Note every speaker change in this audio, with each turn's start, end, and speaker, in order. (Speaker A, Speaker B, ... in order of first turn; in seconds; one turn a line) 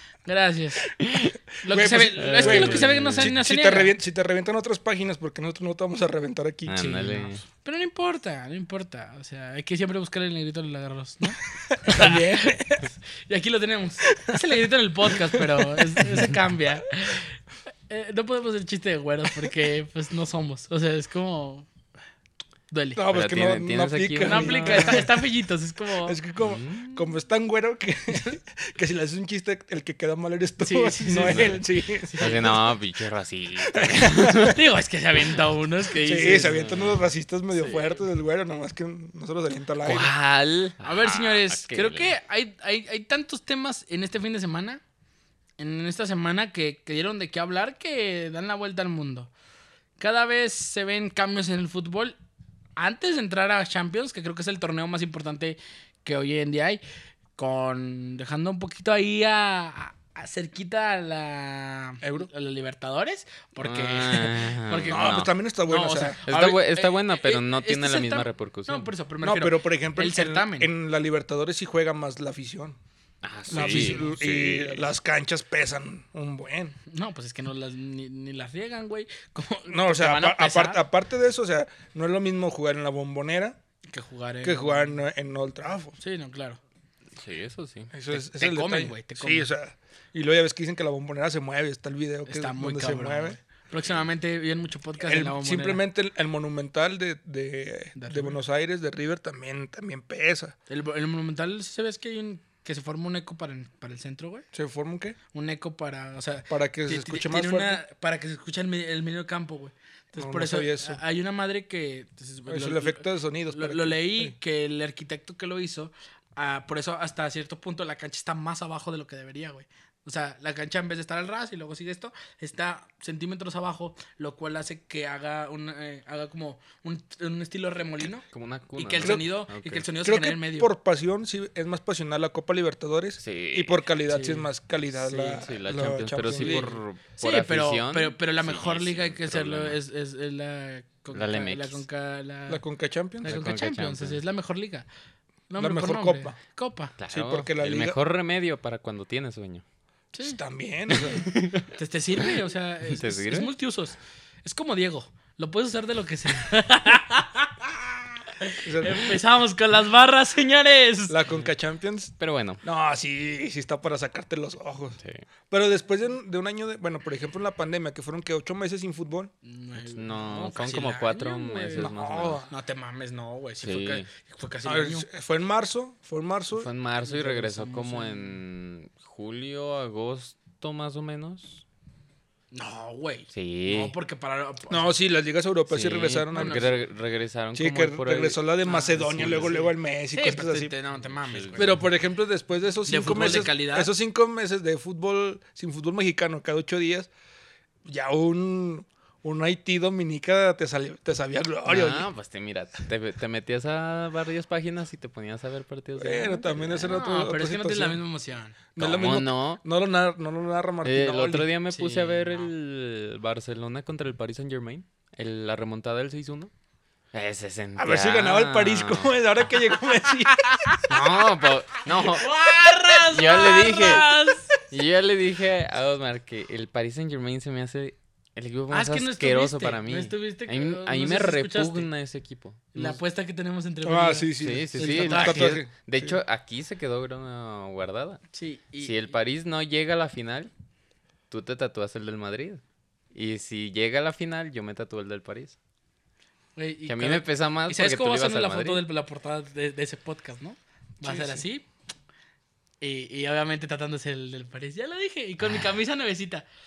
Speaker A: 0.2-0.9
Speaker B: 1.0-1.3
Speaker A: 1.6-3.9
Speaker C: 1.7-7.2
Speaker B: 2.2-3.3
Speaker B: 6.7-7.4
Speaker A: 6.9-21.7
Speaker C: 11.7-12.8
Speaker C: 15.3-16.1
Speaker A: 22.7-23.0
Speaker C: 22.9-25.1
Speaker B: 23.1-25.1
Speaker A: 24.2-26.2
Speaker C: 26.0-32.5
Speaker B: 26.4-27.0
Speaker A: 30.6-32.6
Speaker B: 31.1-31.6
Speaker B: 32.2-34.6
Speaker C: 33.6-34.5
Speaker A: 34.4-36.5
Speaker B: 35.9-37.0
Speaker C: 35.9-40.1
Speaker B: 39.8-42.1
Speaker A: 40.8-44.8
Speaker A: 45.6-49.3
Speaker A: 50.0-52.1
Speaker A: 52.8-56.8
Speaker A: 57.4-65.1
Speaker C: 62.0-62.3
Speaker B: 63.6-65.3
Speaker C: 64.9-66.2
Speaker A: 65.7-70.7
Speaker B: 66.2-68.9
Speaker C: 69.2-72.8
Speaker B: 73.2-74.9
Speaker C: 73.5-76.8
Speaker A: 73.6-73.9
Speaker A: 76.9-80.8
Speaker C: 79.7-83.6
Speaker A: 83.9-85.0
Speaker C: 84.4-86.0
Speaker A: 86.0-86.6
Speaker B: 87.2-87.9
Speaker C: 87.9-93.4
Speaker A: 88.1-89.5
Speaker A: 92.3-95.8
Speaker C: 95.0-100.5
Speaker A: 98.0-98.4
Speaker A: 100.7-104.5
Speaker C: 104.5-105.2
Speaker A: 105.3-128.2
Speaker C: 106.5-107.8
Speaker C: 110.2-111.0
Speaker C: 112.5-114.3
Speaker B: 128.3-129.8
Speaker A: 128.8-130.7
Speaker C: 129.0-129.3
Speaker C: 130.0-136.8
Speaker B: 133.2-133.8
Speaker A: 134.1-134.4
Speaker B: 135.0-139.8
Speaker A: 136.4-136.7
Speaker A: 137.2-142.6
Speaker B: 141.1-141.8
Speaker C: 142.5-143.3
Speaker A: 143.2-144.8
Speaker B: 143.2-144.2
Speaker A: 145.5-146.9
Speaker C: 145.6-146.3
Speaker B: 147.0-149.6
Speaker C: 147.1-148.0
Speaker A: 150.1-150.4
Speaker C: 150.2-151.3
Speaker B: 150.9-151.7
Speaker A: 151.7-161.2
Speaker B: 152.9-153.5
Speaker C: 158.6-159.2
Speaker C: 161.1-165.0
Speaker B: 162.2-162.6
Speaker C: 165.5-169.3
Speaker A: 169.4-171.9
Speaker B: 169.8-172.4
Speaker C: 171.7-172.5
Speaker A: 172.5-175.1
Speaker B: 173.6-174.1
Speaker C: 174.6-176.7
Speaker B: 176.5-181.6
Speaker A: 177.0-178.4
Speaker A: 182.5-184.9
Speaker B: 183.3-183.9
Speaker C: 184.7-186.7
Speaker B: 185.7-189.6
Speaker A: 186.3-186.7
Speaker C: 187.5-190.7
Speaker A: 188.6-191.7
Speaker B: 191.0-191.8
Speaker C: 191.5-197.1
Speaker A: 192.9-193.9
Speaker C: 197.8-202.1
Speaker B: 201.7-206.9
Speaker C: 206.0-208.0
Speaker A: 206.8-208.6
Speaker C: 208.7-211.5
Speaker B: 208.8-209.6
Speaker B: 210.8-216.5
Speaker A: 211.7-212.5
Speaker B: 217.1-219.2
Speaker C: 217.8-220.8
Speaker B: 220.9-222.3
Speaker A: 222.0-224.5
Speaker B: 222.9-233.0
Speaker A: 228.7-231.9
Speaker A: 232.7-235.5
Speaker C: 233.8-236.2
Speaker B: 234.4-238.2
Speaker A: 238.3-239.1
Speaker B: 238.8-240.5
Speaker B: 241.3-242.6
Speaker B: 243.1-245.6
Speaker A: 246.6-251.7
Speaker B: 246.9-248.8
Speaker C: 251.0-251.4
Speaker A: 252.8-256.4